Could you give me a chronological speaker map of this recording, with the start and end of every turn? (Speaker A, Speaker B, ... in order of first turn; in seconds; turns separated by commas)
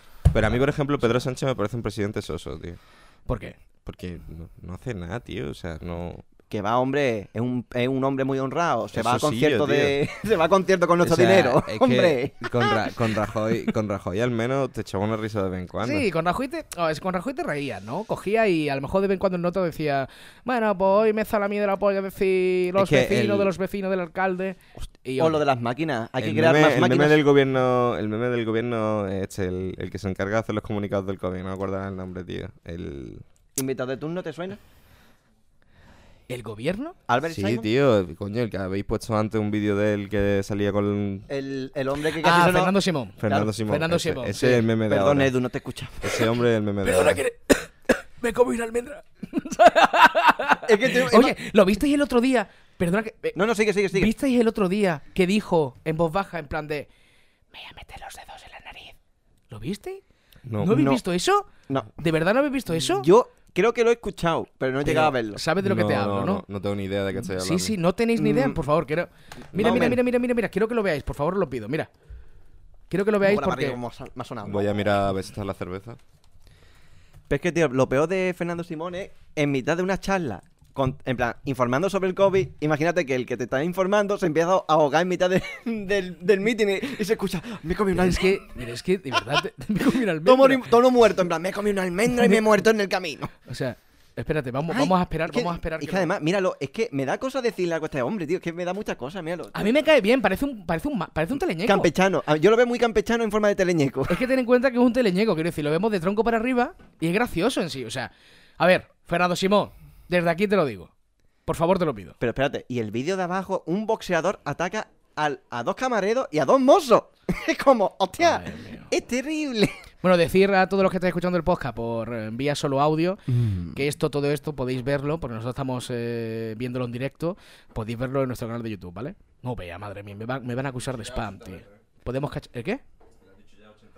Speaker A: 0.3-2.8, Speaker B: 3.3-3.6, Speaker A: 3.9-6.2, Speaker C: 6.5-12.9, Speaker A: 8.9-10.0, Speaker A: 11.0-16.1, Speaker B: 15.8-25.4, Speaker A: 22.8-23.5, Speaker C: 25.2-27.2, Speaker A: 26.2-33.2, Speaker C: 33.6-34.6, Speaker B: 36.3-37.0, Speaker C: 37.1-37.7, Speaker A: 37.2-41.3, Speaker C: 41.3-42.8, Speaker B: 42.2-44.6, Speaker A: 43.2-45.3, Speaker C: 44.9-46.2, Speaker A: 46.0-47.2, Speaker B: 46.8-53.4, Speaker C: 50.6-51.4, Speaker C: 53.4-54.1, Speaker B: 53.9-56.9, Speaker B: 57.5-59.0, Speaker B: 59.5-60.0, Speaker A: 60.5-60.8, Speaker B: 60.6-63.1, Speaker C: 60.6-61.0, Speaker C: 61.7-61.9, Speaker C: 62.8-65.4, Speaker B: 64.8-66.4, Speaker A: 65.6-67.8, Speaker B: 67.3-71.9, Speaker C: 68.2-68.6, Speaker C: 69.5-70.0, Speaker B: 72.9-73.8, Speaker C: 73.2-74.7, Speaker A: 74.5-76.0, Speaker C: 77.3-88.4, Speaker B: 87.9-90.7, Speaker C: 90.2-93.3, Speaker B: 92.1-92.5, Speaker B: 93.5-96.1, Speaker C: 94.7-99.7, Speaker B: 99.5-101.9, Speaker C: 101.7-104.2, Speaker B: 104.1-110.9, Speaker B: 111.5-112.2, Speaker C: 112.2-119.8, Speaker B: 118.2-118.9, Speaker B: 120.0-132.8, Speaker C: 123.3-123.8, Speaker A: 130.9-131.7